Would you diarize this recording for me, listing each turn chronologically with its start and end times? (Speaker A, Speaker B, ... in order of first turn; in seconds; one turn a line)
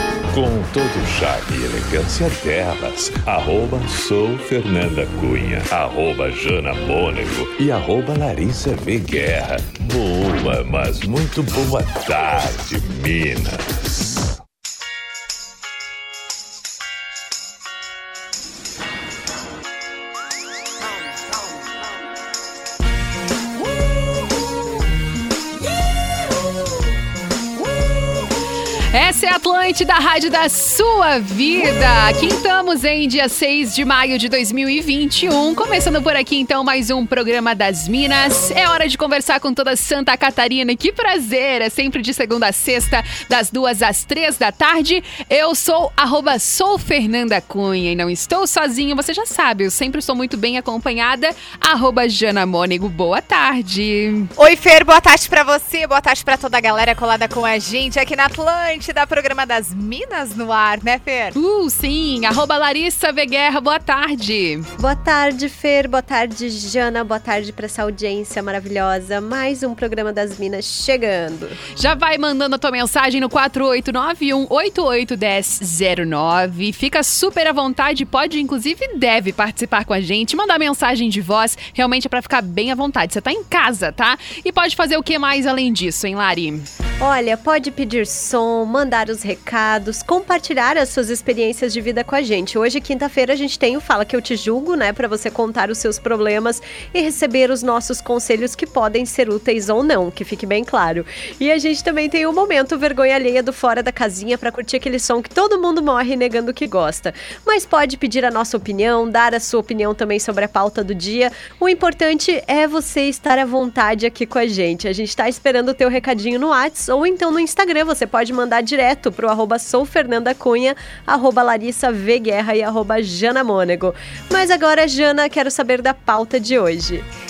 Speaker A: 0.3-13.6
Speaker B: 28.9-54.3
Speaker C: 54.4-61.4
Speaker B: 61.4-64.7
Speaker D: 64.8-71.6
Speaker B: 71.8-86.7
Speaker D: 87.0-127.0